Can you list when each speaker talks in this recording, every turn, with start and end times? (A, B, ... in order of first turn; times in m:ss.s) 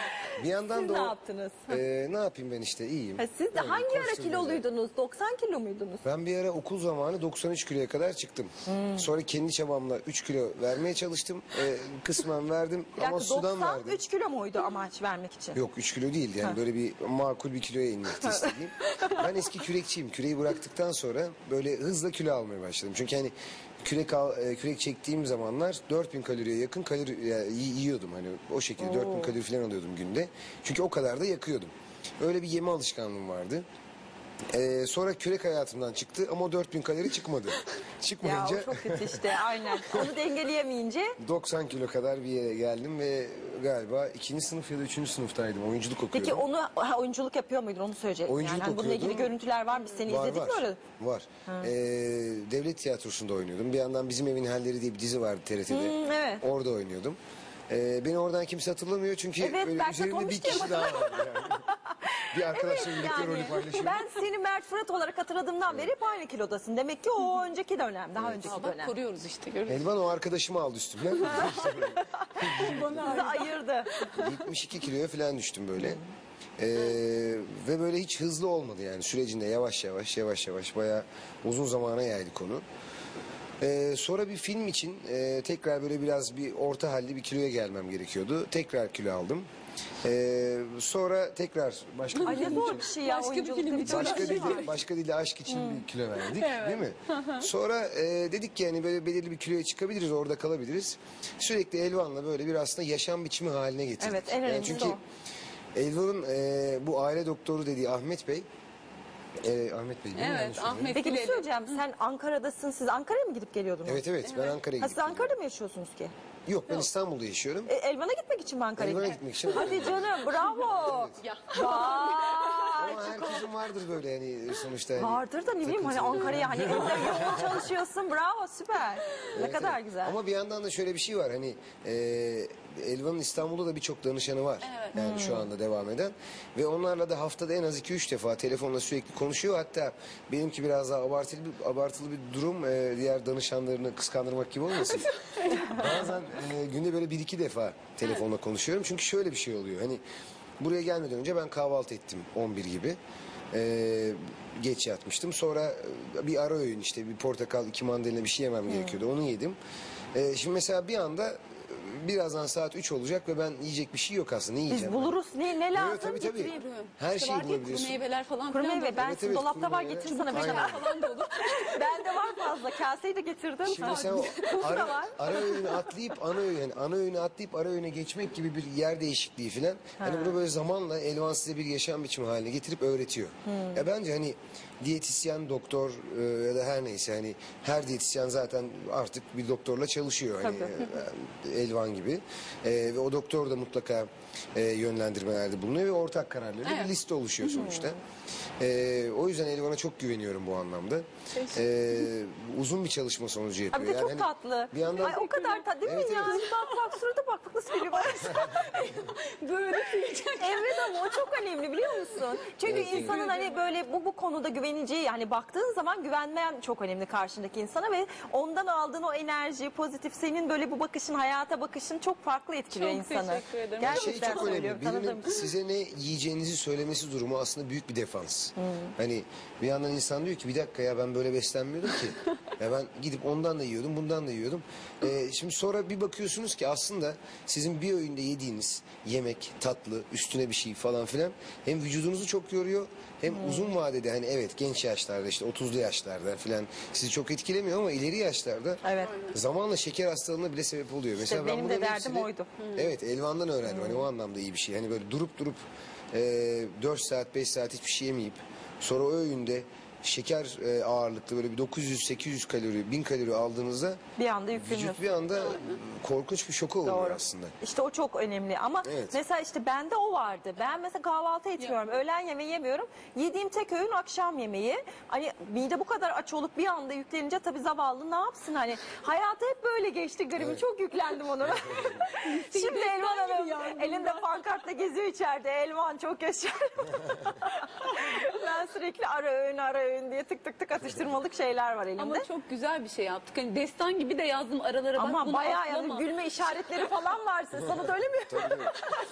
0:00.4-0:01.2 A
0:00.7-0:01.8 B
0:01.7-0:04.6 A
0:03.2-0:06.0 B
0:06.0-0:14.0 A
0:08.7-0:09.1 B
0:13.0-0:15.6 B
0:15.6-0:33.6 A
0:18.2-0:19.2 B
0:28.8-0:29.4 B
0:34.5-0:39.4 A
0:38.2-0:41.2 B
0:41.2-0:46.5 A
0:46.1-0:50.8 B
0:48.3-0:49.3 A
0:50.0-1:01.7 A
0:51.5-0:51.7 B
0:55.7-0:56.4 B
0:59.4-1:01.4 B
1:01.9-1:08.9 B
1:02.3-1:04.1 A
1:08.2-1:08.6 A
1:08.4-1:10.0 C
1:09.7-1:13.2 A
1:11.4-1:11.7 C
1:11.5-1:12.5 B
1:12.5-1:14.3 C
1:13.0-1:14.0 B
1:14.1-1:16.0 A
1:16.6-1:22.6 A
1:23.6-1:29.5 A
1:30.0-1:32.9 A
1:32.2-1:34.8 C
1:32.2-1:34.7 B
1:33.8-1:45.0 A
1:35.5-1:35.8 B
1:36.3-1:37.5 C
1:44.0-1:45.0 B
1:44.7-1:45.0 C
1:45.8-1:48.5 A
1:49.4-1:51.0 A
1:50.2-1:51.8 C
1:50.9-1:54.0 B
1:53.8-1:55.4 A
1:54.2-1:54.6 C
1:54.7-1:56.1 B
1:56.5-1:57.7 A
1:57.7-2:03.5 B
1:58.8-2:01.2 A
2:00.3-2:02.8 C
2:02.8-2:07.6 A
2:05.0-2:10.2 B
2:09.2-2:25.1 A
2:14.6-2:15.0 C
2:15.0-2:15.5 B
2:24.8-2:25.7 C
2:25.6-2:30.0 A
2:30.6-2:33.0 A
2:33.5-2:39.6 A
2:38.7-2:39.0 B
2:40.1-2:45.2 A
2:44.7-2:46.6 B
2:45.7-2:48.0 A
2:46.4-2:49.1 C
2:48.5-2:50.9 B
2:49.0-2:50.8 A
2:50.0-2:52.5 C
2:51.6-2:55.3 B
2:53.7-3:18.0 A
2:53.8-2:55.7 C
3:00.0-3:00.4 B
3:03.5-3:03.8 B
3:10.4-3:10.9 B
3:16.6-3:16.9 C
3:17.4-3:17.9 B
3:18.6-3:25.2 A
3:21.4-3:21.9 C
3:23.7-3:28.4 B
3:24.9-3:26.9 C
3:25.8-3:26.5 A
3:27.9-3:32.2 C
3:30.3-3:45.4 B
3:32.6-3:33.2 A
3:33.0-3:33.6 C
3:42.7-3:44.6 C
3:43.8-4:15.6 A
3:48.6-3:48.9 B
4:03.3-4:03.7 B
4:08.8-4:09.2 B
4:09.0-4:09.4 C
4:11.2-4:12.6 B
4:12.6-4:12.9 C
4:13.7-4:14.1 B
4:16.1-4:24.0 A
4:24.2-4:25.1 B
4:24.5-4:27.5 A
4:25.3-4:25.8 C
4:26.8-4:52.3 B
4:28.8-4:29.2 A
4:31.6-4:31.9 C
4:42.2-4:44.5 C
4:52.0-4:56.1 C
4:55.0-4:58.9 B
4:58.3-4:58.7 A